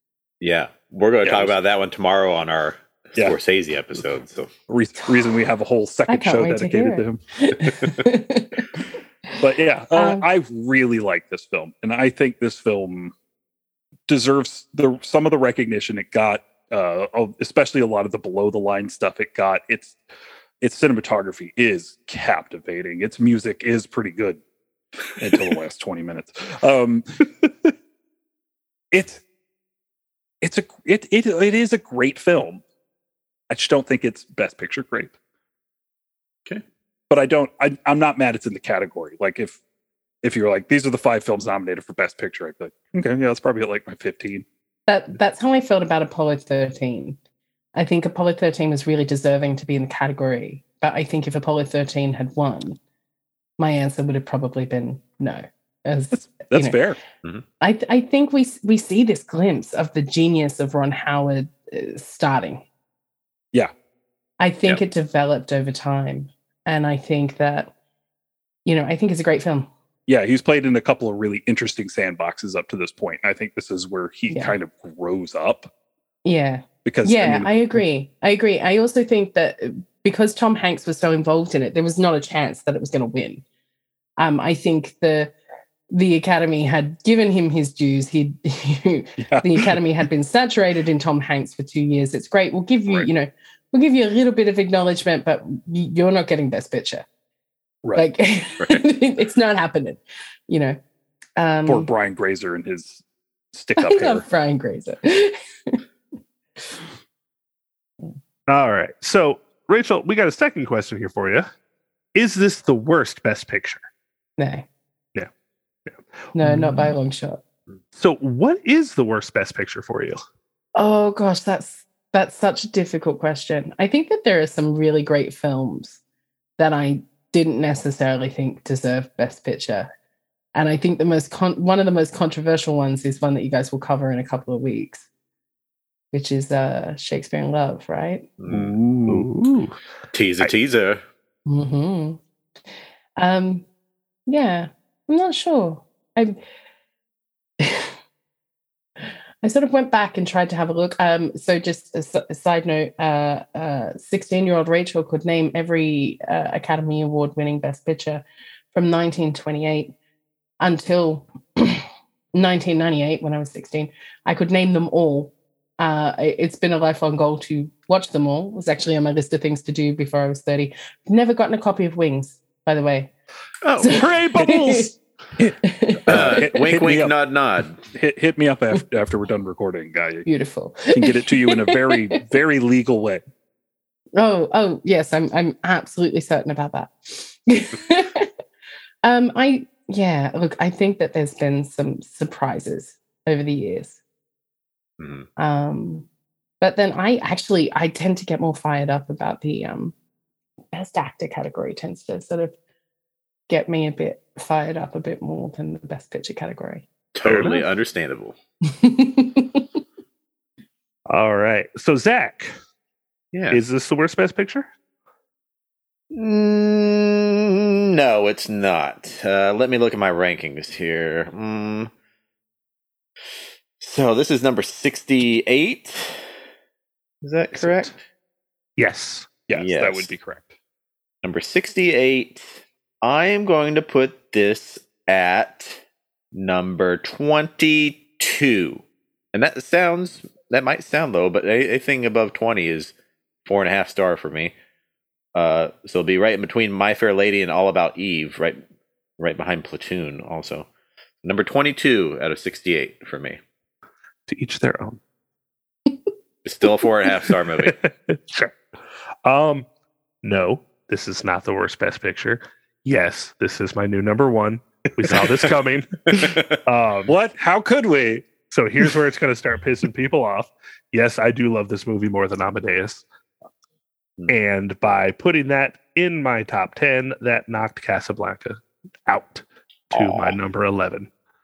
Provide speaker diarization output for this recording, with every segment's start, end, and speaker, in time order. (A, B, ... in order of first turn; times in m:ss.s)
0:00.4-0:04.5 A
0:01.2-0:01.5 B
0:04.7-0:07.2 B
0:06.1-0:08.8 C
0:09.4-0:13.1 B
0:09.9-0:10.2 C
0:14.1-0:20.0 B
0:20.6-0:24.4 B
0:25.2-0:27.2 B
0:28.9-0:29.2 B
0:30.4-0:32.6 B
0:33.5-0:35.1 B
0:37.1-0:39.6 B
0:40.2-0:44.4 B
0:44.9-0:47.2 C
0:47.7-0:52.8 C
0:53.6-0:56.8 C
0:56.1-0:57.0 B
0:57.6-1:02.6 C
1:04.4-1:07.7 C
1:08.6-1:09.7 C
1:10.1-1:15.7 B
1:14.3-1:14.5 C
1:16.2-1:23.4 C
1:16.8-1:17.5 B
1:24.2-1:25.3 C
1:25.9-1:37.0 C
1:29.2-1:29.7 B
1:38.0-1:40.8 C
1:38.6-1:38.8 A
1:41.4-1:41.9 C
1:41.6-1:44.2 B
1:43.8-1:45.8 C
1:48.5-1:51.5 D
1:52.1-1:53.8 D
1:54.4-1:54.6 C
1:55.9-1:57.0 D
1:56.3-1:57.4 C
1:57.9-2:00.2 D
2:00.7-2:06.0 C
2:06.6-2:09.9 C
2:10.5-2:15.0 C
2:16.1-2:18.3 C
2:18.4-2:19.3 A
2:18.5-2:19.8 D
2:20.1-2:21.0 A
2:21.4-2:22.2 C
2:23.2-2:23.6 C
2:24.3-2:26.4 C
2:27.6-2:27.9 C
2:29.0-2:39.9 C
2:40.6-2:53.1 C
2:53.6-2:54.1 A
2:53.8-2:54.9 C
2:53.9-2:54.9 D
2:54.3-2:54.6 B
2:55.4-2:57.1 B
2:55.6-2:56.5 C
2:56.1-2:57.8 A
2:57.9-3:00.3 B
3:00.2-3:02.0 C
3:00.9-3:03.2 B
3:04.2-3:08.3 C
3:09.0-3:14.0 C
3:15.0-3:15.3 A
3:15.4-3:16.1 C
3:16.6-3:19.9 C
3:20.7-3:22.5 C
3:23.5-3:26.8 C
3:27.1-3:28.4 A
3:27.2-3:27.6 D
3:28.7-3:29.6 C
3:31.1-3:32.5 D
3:33.3-3:33.6 A
3:33.5-3:34.7 D
3:36.1-3:41.9 A
3:43.8-3:46.2 A
3:47.2-3:48.0 A
3:47.6-3:47.9 D
3:48.8-3:49.3 D
3:49.5-3:50.5 B
3:49.5-3:50.1 A
3:51.2-3:52.5 A
3:53.0-3:55.8 A
3:56.3-4:02.9 A
4:03.4-4:04.5 A
4:05.3-4:08.6 A
4:09.2-4:10.6 A
4:11.2-4:13.4 A
4:14.3-4:15.0 D
4:16.4-4:17.8 A
4:17.6-4:18.5 D
4:19.2-4:19.7 D
4:20.2-4:27.1 D
4:26.1-4:26.5 A
4:27.1-4:28.2 B
4:28.5-4:33.0 D
4:34.3-4:41.1 D
4:39.9-4:40.4 A